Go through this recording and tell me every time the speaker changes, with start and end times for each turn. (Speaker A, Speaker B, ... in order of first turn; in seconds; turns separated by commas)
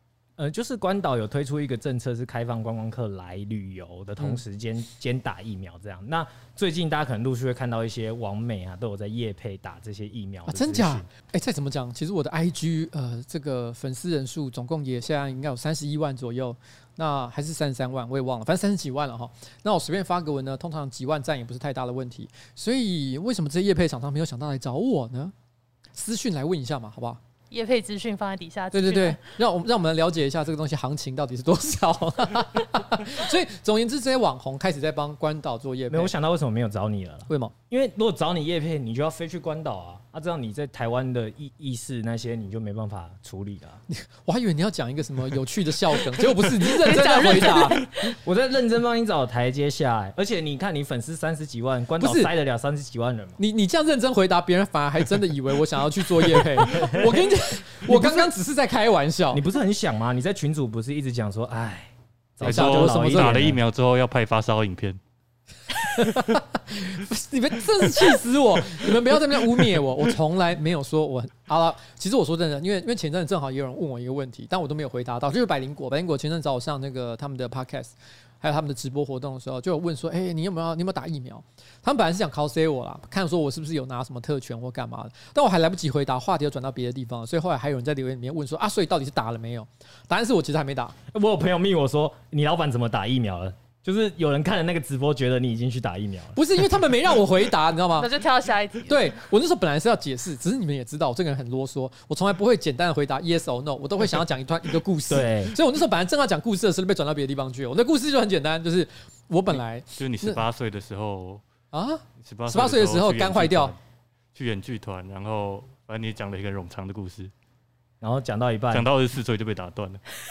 Speaker A: 0.4-11.1, Speaker B: 10.5-25.3, Speaker B: 25.9-27.2, Speaker C: 27.5-29.2, Speaker B: 28.7-36.1, Speaker A: 35.9-43.8, Speaker B: 43.9-47.8, Speaker C: 46.6-48.1, Speaker A: 48.0-53.4, Speaker B: 52.0-52.3, Speaker B: 53.4-59.4, Speaker A: 56.6-57.3, Speaker A: 57.8-58.3, Speaker A: 59.3-63.6, Speaker B: 62.4-63.5, Speaker D: 62.4-65.0, Speaker B: 65.8-91.0, Speaker A: 91.1-96.4, Speaker B: 96.3-98.1, Speaker C: 98.0-99.1, Speaker B: 98.9-110.4, Speaker A: 105.1-105.5, Speaker D: 110.0-111.4, Speaker B: 111.7-113.8, Speaker D: 112.2-113.8, Speaker D: 114.3-117.3, Speaker A: 118.0-118.9, Speaker D: 118.7-120.0